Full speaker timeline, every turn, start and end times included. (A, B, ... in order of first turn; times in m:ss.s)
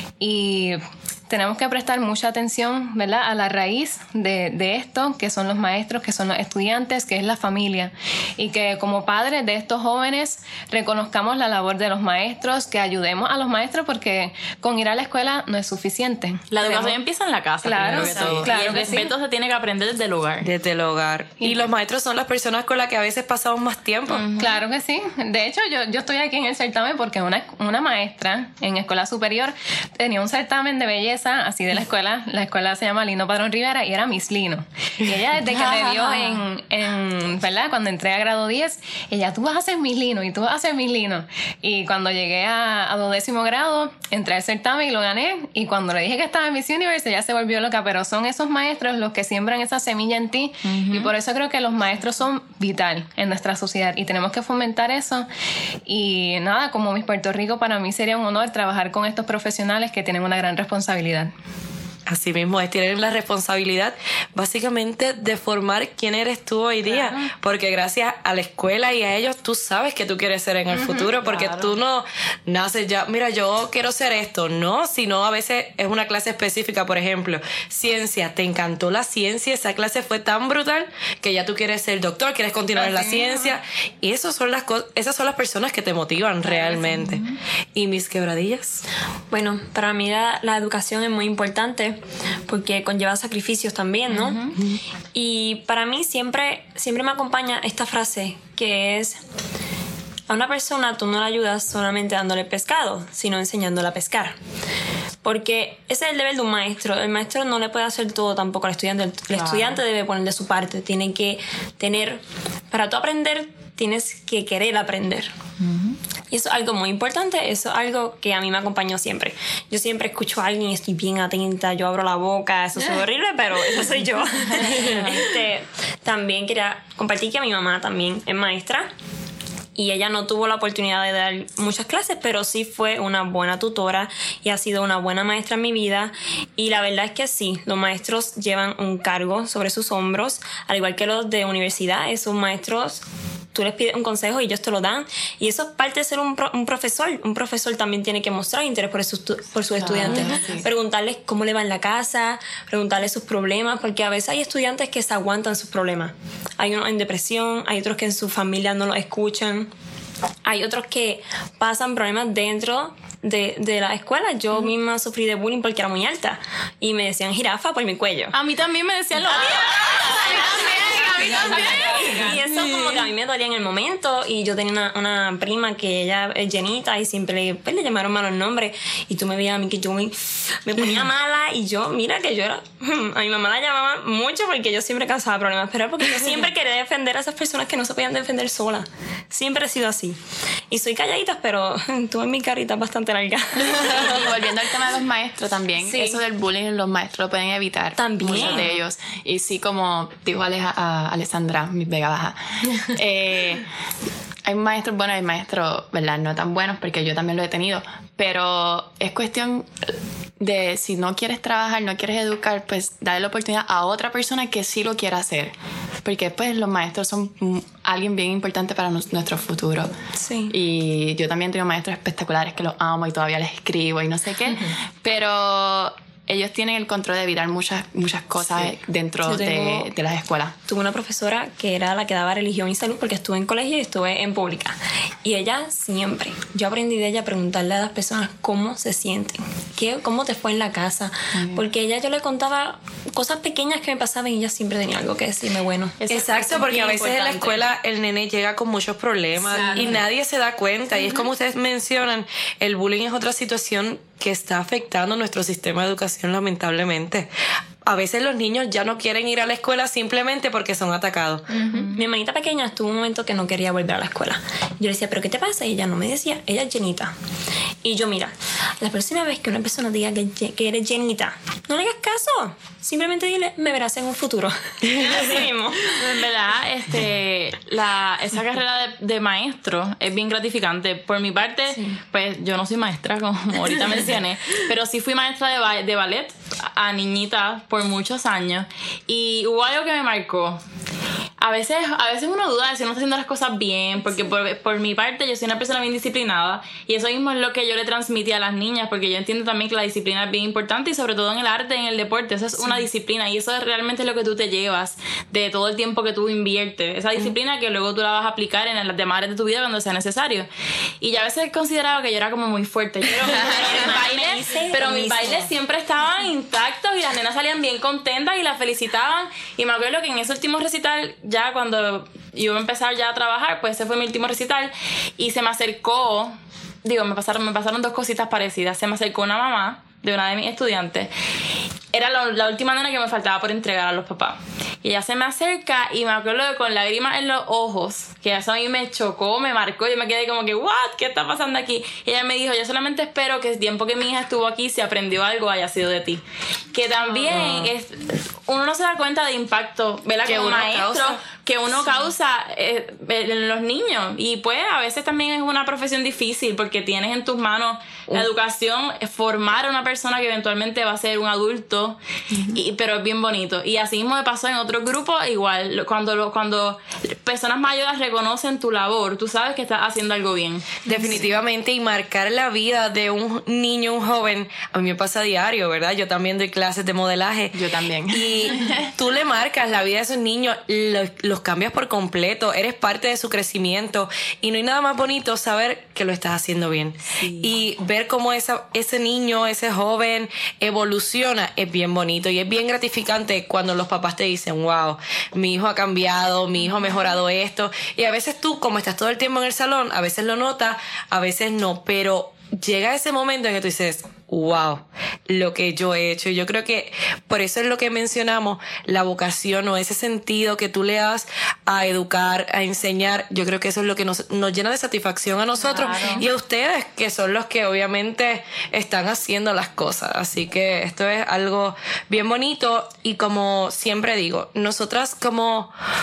0:00.2-0:17.0 A
0:16.5-0:20.5 B
0:17.6-0:19.1 A
0:17.9-0:18.3 C
0:17.9-0:18.5 D
0:20.4-0:24.3 C
0:24.1-0:24.6 B
0:24.4-0:55.3 A
0:35.7-0:36.3 B
0:50.7-0:51.1 B
0:55.9-1:01.3 A
1:02.1-1:28.8 C
1:22.8-1:23.3 A
1:29.3-1:34.6 E
1:34.1-1:34.5 B
1:35.1-1:39.2 E
1:40.3-1:44.4 E
1:45.2-1:55.3 E
1:49.4-1:49.8 D
1:55.7-1:56.0 D
1:56.3-2:08.9 E
2:09.8-2:39.7 E
2:29.8-2:30.7 D
2:40.4-2:48.4 E
2:48.3-2:53.0 B
2:49.3-3:14.3 E
2:51.4-2:51.8 D
3:13.8-3:23.7 D
3:15.8-3:16.2 E
3:18.0-3:18.7 E
3:24.5-3:35.5 D
3:36.0-3:39.9 D
3:40.2-3:40.6 E
3:40.5-3:50.6 D
3:49.2-3:49.9 E
3:50.7-4:06.0 E
4:01.4-4:01.6 D
4:06.0-4:07.6 B
4:06.1-4:17.3 C
4:09.5-4:09.9 B
4:17.8-4:21.6 C
4:21.5-4:21.9 A
4:21.9-4:27.1 E
4:27.8-4:36.0 E
4:35.9-4:50.6 B
4:41.7-4:42.0 E
4:51.4-5:10.5 B
5:11.0-5:31.1 B
5:13.1-5:15.5 E
5:31.9-6:02.0 B
5:47.4-5:47.6 C
5:50.2-5:51.2 C
6:02.5-6:10.9 B
6:10.9-6:17.6 C
6:17.5-6:18.9 D
6:18.1-7:05.7 C
6:27.2-6:27.5 D
6:55.7-6:56.2 B